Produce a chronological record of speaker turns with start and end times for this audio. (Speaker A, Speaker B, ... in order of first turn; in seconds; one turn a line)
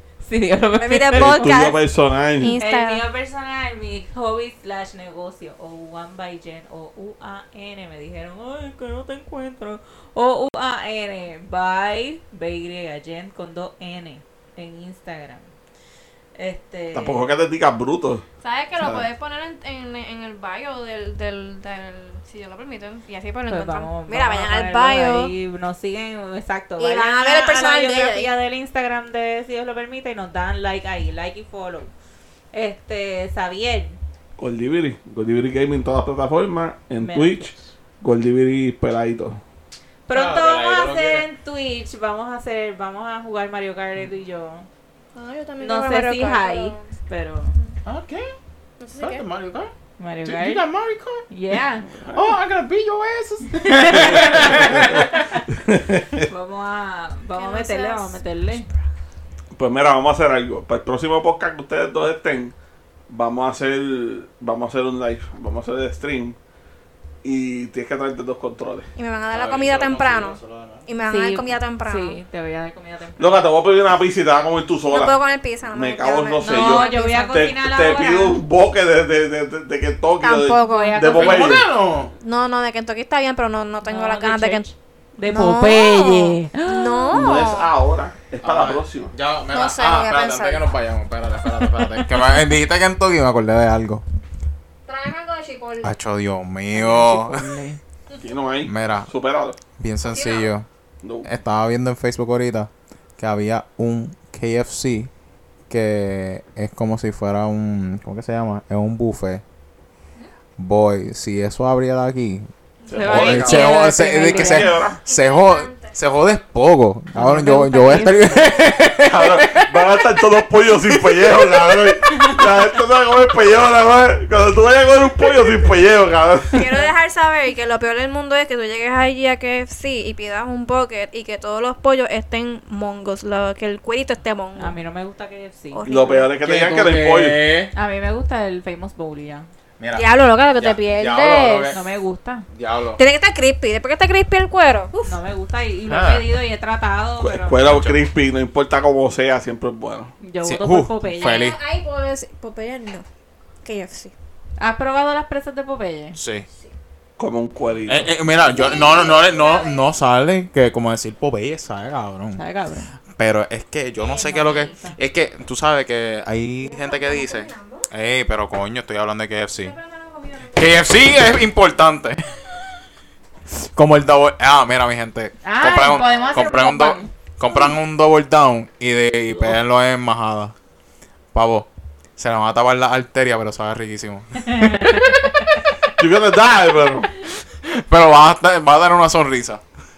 Speaker A: 0.2-1.6
Speaker B: 0.8-1.8
Speaker C: 1.1-2.6
Speaker B: 2.4-3.0
Speaker A: 2.6-15.5
Speaker A: 16.4-17.3
Speaker C: 16.9-18.2
Speaker B: 18.4-25.3
Speaker C: 18.8-19.1
Speaker A: 23.5-31.9
Speaker B: 26.8-28.3
Speaker A: 32.5-34.0
Speaker C: 34.4-39.4
Speaker A: 37.0-37.6
Speaker A: 40.1-44.7
Speaker D: 40.1-41.3
Speaker B: 45.1-46.9
Speaker A: 45.6-47.6
Speaker D: 47.9-48.3
Speaker B: 48.8-49.2
Speaker D: 49.0-49.7
Speaker A: 50.0-50.6
Speaker D: 50.2-51.2
Speaker A: 51.3-51.9
Speaker C: 51.9-52.3
Speaker D: 52.1-55.1
Speaker A: 53.5-55.2
Speaker C: 53.9-56.3
Speaker A: 56.3-58.7
Speaker B: 57.4-58.2
Speaker C: 59.5-62.5
Speaker C: 63.1-66.4
Speaker C: 67.2-68.9
Speaker B: 69.0-72.2
Speaker D: 69.3-70.8
Speaker A: 71.1-73.5
Speaker C: 73.2-75.2
Speaker B: 74.9-77.5
Speaker C: 75.7-81.7
Speaker A: 76.4-78.4
Speaker B: 80.2-81.0
Speaker A: 80.7-81.6
Speaker D: 81.1-82.1
Speaker B: 82.2-84.7
Speaker A: 83.9-87.2
Speaker B: 85.2-87.7
Speaker C: 87.1-89.1
Speaker D: 88.4-94.0
Speaker B: 89.5-90.7
Speaker B: 94.9-95.9
Speaker D: 95.8-97.4
Speaker A: 96.7-97.8
Speaker C: 98.2-99.6
Speaker D: 98.7-99.1
Speaker D: 99.8-100.7
Speaker B: 100.1-100.5
Speaker C: 101.0-101.3
Speaker D: 101.2-105.1
Speaker D: 105.7-109.4
Speaker D: 110.6-119.8
Speaker C: 112.9-113.7
Speaker A: 112.9-114.7
Speaker C: 114.3-115.0
Speaker B: 114.8-115.9
Speaker A: 117.2-118.8
Speaker C: 119.0-126.6
Speaker A: 122.1-122.4
Speaker A: 126.5-126.9
Speaker B: 126.5-134.8
Speaker A: 134.6-135.9
Speaker B: 135.7-136.3
Speaker C: 135.9-137.4
Speaker D: 136.4-137.7
Speaker A: 137.7-139.5
Speaker D: 139.8-140.1
Speaker B: 139.9-141.8
Speaker D: 140.6-141.8
Speaker A: 141.7-142.5
Speaker D: 142.5-143.0
Speaker B: 143.0-145.1
Speaker A: 145.0-147.7
Speaker D: 145.9-146.2
Speaker C: 147.2-150.1
Speaker D: 147.6-148.0
Speaker A: 150.2-151.5
Speaker D: 150.4-151.6
Speaker B: 151.2-153.1
Speaker B: 153.6-154.1
Speaker A: 154.6-156.2
Speaker D: 156.2-156.5
Speaker C: 157.2-158.1
Speaker D: 157.9-162.4
Speaker B: 158.4-159.9
Speaker A: 162.4-162.9
Speaker D: 163.2-169.8
Speaker A: 164.0-165.0
Speaker B: 166.6-167.9
Speaker B: 169.6-170.9
Speaker D: 170.5-172.3
Speaker D: 173.5-180.6
Speaker A: 175.4-177.1
Speaker B: 175.9-176.3
Speaker D: 181.3-185.4
Speaker A: 184.4-185.5
Speaker C: 186.0-187.1
Speaker D: 187.6-189.6